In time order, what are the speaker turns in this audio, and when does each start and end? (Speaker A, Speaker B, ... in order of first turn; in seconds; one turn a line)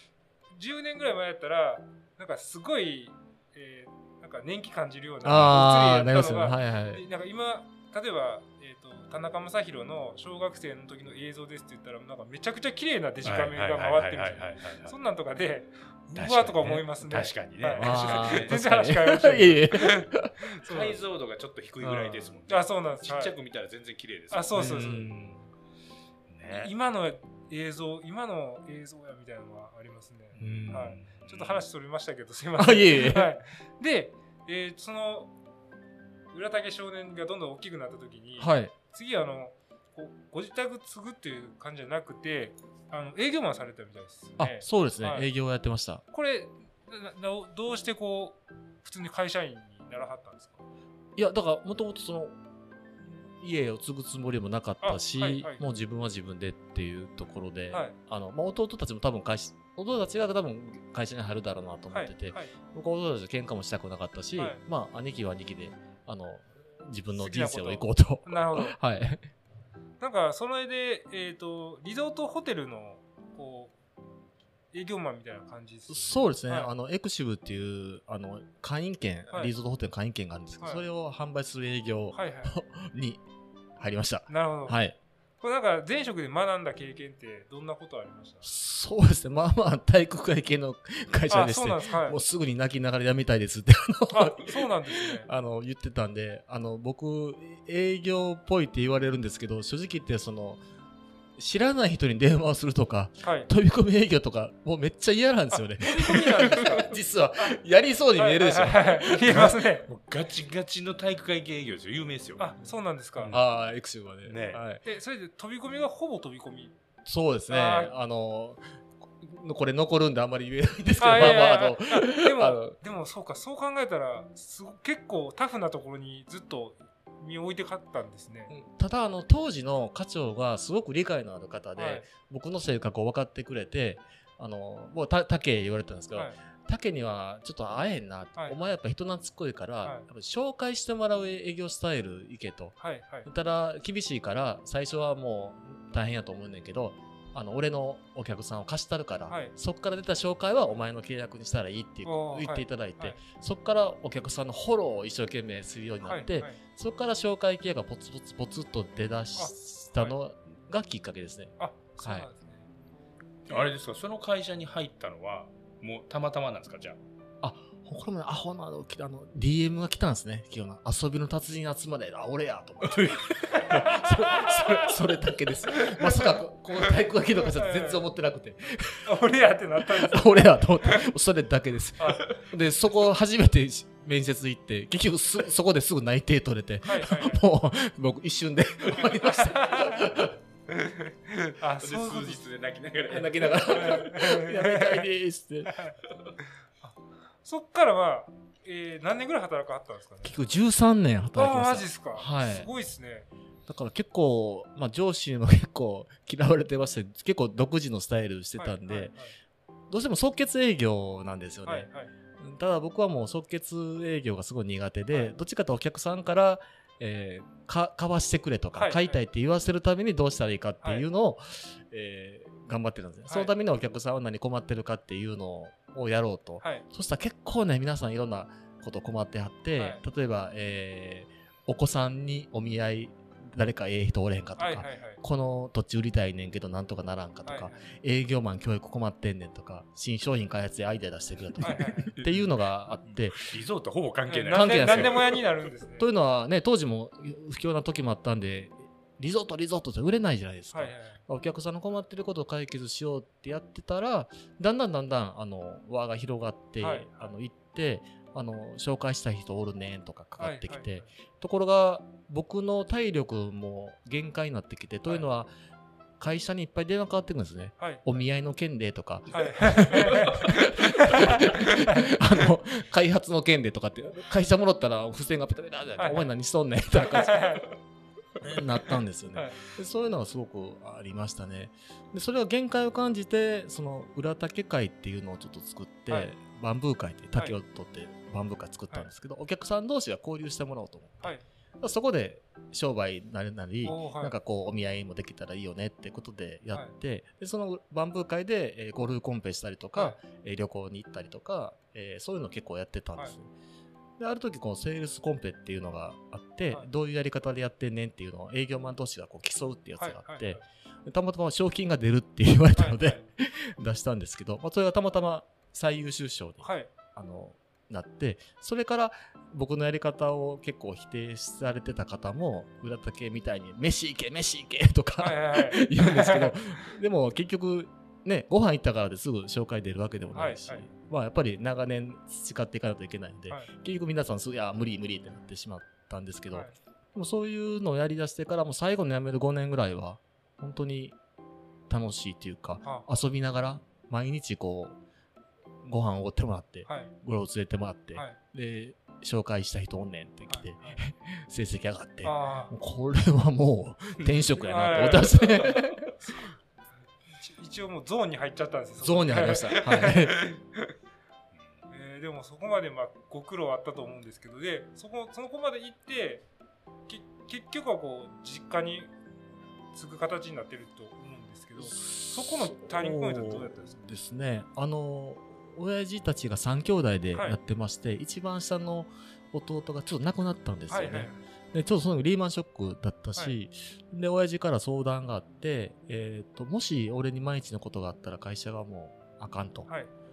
Speaker A: 0.5-19.9
Speaker B: 5.2-7.0
Speaker C: 13.2-15.0
Speaker C: 16.1-18.5
Speaker B: 17.8-20.4
Speaker C: 20.6-25.2
Speaker A: 20.6-21.0
Speaker B: 21.9-22.2
Speaker A: 21.9-23.3
Speaker A: 24.3-25.1
Speaker B: 24.6-25.4
Speaker C: 26.3-26.7
Speaker A: 26.6-35.3
Speaker C: 30.4-31.6
Speaker B: 30.4-30.9
Speaker B: 32.6-33.3
Speaker A: 36.3-45.3
Speaker B: 38.4-38.7
Speaker B: 44.4-46.0
Speaker A: 46.1-50.6
Speaker B: 51.2-52.4
Speaker B: 53.0-69.2
Speaker A: 54.8-55.6
Speaker A: 61.9-62.5
Speaker A: 67.2-68.8
Speaker A: 70.0-73.7
Speaker A: 74.7-76.7
Speaker B: 75.9-83.2
Speaker A: 82.1-82.6
Speaker B: 83.8-85.0
Speaker A: 84.3-84.8
Speaker A: 85.4-88.5
Speaker B: 88.4-100.6
Speaker A: 91.3-92.2
Speaker A: 94.1-95.3
Speaker B: 101.4-109.5
Speaker A: 105.5-107.6
Speaker A: 108.2-109.9
Speaker C: 109.3-112.5
Speaker A: 112.4-113.3
Speaker C: 113.2-113.5
Speaker B: 113.3-114.8
Speaker C: 114.2-114.6
Speaker A: 114.8-116.7
Speaker B: 117.0-118.6
Speaker A: 117.5-117.9
Speaker B: 119.2-122.8
Speaker A: 121.0-128.5
Speaker B: 128.5-162.3
Speaker A: 131.8-132.1
Speaker A: 142.8-143.3
Speaker A: 152.1-153.2
Speaker A: 156.0-156.6
Speaker A: 159.4-160.2
Speaker A: 161.6-162.7
Speaker C: 163.5-167.0
Speaker B: 167.4-179.1
Speaker C: 172.8-173.8
Speaker A: 173.6-174.8
Speaker A: 175.8-176.3
Speaker A: 177.6-178.0
Speaker A: 179.1-180.3
Speaker B: 179.8-190.3
Speaker A: 182.0-182.3
Speaker A: 186.8-187.4
Speaker A: 189.3-190.1
Speaker C: 191.3-193.8
Speaker A: 191.6-192.4
Speaker B: 193.1-195.8
Speaker A: 193.7-195.1
Speaker A: 195.7-196.0
Speaker A: 196.8-200.4
Speaker B: 200.2-202.7
Speaker A: 201.4-203.3
Speaker B: 203.7-209.1
Speaker A: 208.6-209.4
Speaker B: 209.9-243.5
Speaker A: 211.7-212.1
Speaker A: 218.8-219.2
Speaker A: 229.8-230.0
Speaker A: 234.6-235.2
Speaker A: 237.5-237.8
Speaker A: 241.6-242.1
Speaker C: 243.1-245.4
Speaker A: 244.3-246.1
Speaker B: 244.5-245.3
Speaker B: 246.0-265.5
Speaker A: 250.7-251.2
Speaker A: 256.8-257.3
Speaker A: 260.4-261.1
Speaker B: 266.2-277.5
Speaker A: 269.3-272.0
Speaker A: 276.0-276.2
Speaker A: 277.0-277.7
Speaker B: 278.4-303.5
Speaker A: 279.4-279.6
Speaker A: 293.8-294.3
Speaker B: 304.2-341.2
Speaker A: 310.0-310.6
Speaker A: 312.8-313.2
Speaker A: 316.6-316.9
Speaker A: 325.2-326.5
Speaker A: 330.3-330.9
Speaker B: 341.9-345.0
Speaker B: 345.8-356.1
Speaker A: 346.9-347.1
Speaker A: 350.5-351.0
Speaker A: 352.2-352.7
Speaker A: 354.6-355.6
Speaker A: 356.2-356.5
Speaker A: 357.4-360.5
Speaker B: 359.0-360.4
Speaker A: 361.9-366.4
Speaker A: 367.1-369.1
Speaker A: 369.9-373.9
Speaker B: 371.8-389.9
Speaker A: 380.9-381.4